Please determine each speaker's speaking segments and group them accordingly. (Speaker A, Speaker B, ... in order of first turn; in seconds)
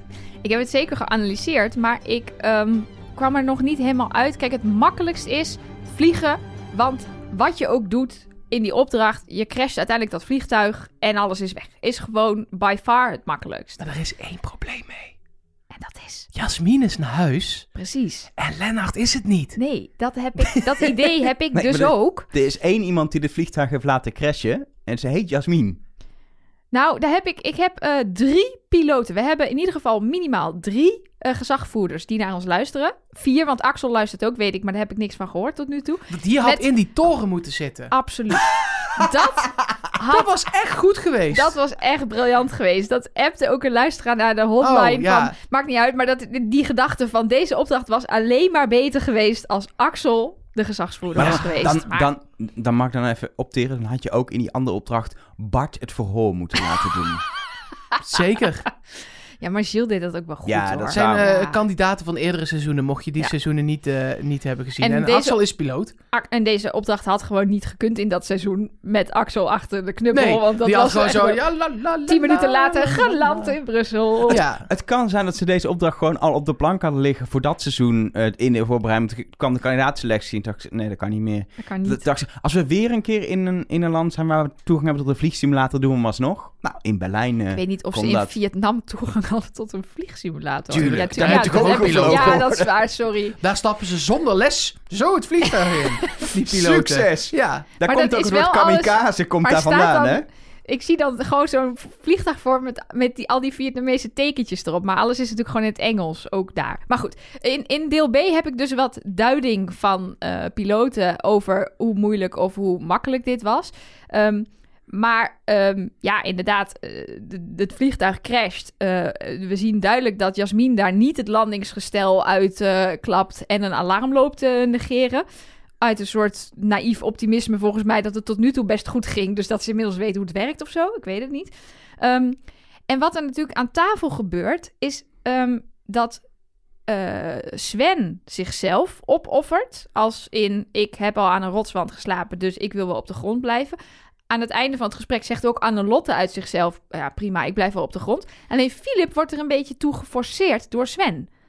Speaker A: 0.4-13.8, 15.7-16.3, 17.8-18.3, 19.6-22.3, 26.7-36.6, 37.9-40.4, 41.3-52.1, 59.4-61.6, 64.8-65.4, 66.1-71.4, 72.1-74.4, 81.6-82.0, 87.5-93.4, 95.5-96.3, 97.8-125.2, 125.8-136.2, 136.9-143.8, 144.3-151.3
Speaker B: 13.8-15.1, 16.3-17.7, 18.4-19.6, 36.1-37.9, 40.1-41.6, 44.6-45.4, 51.1-51.5, 58.0-58.7, 60.9-65.9, 70.1-73.5, 74.3-74.7, 90.7-92.4, 93.4-97.7
Speaker C: 21.5-25.8, 51.2-57.2, 60.5-61.3, 74.7-88.3, 90.7-92.7, 96.5-100.3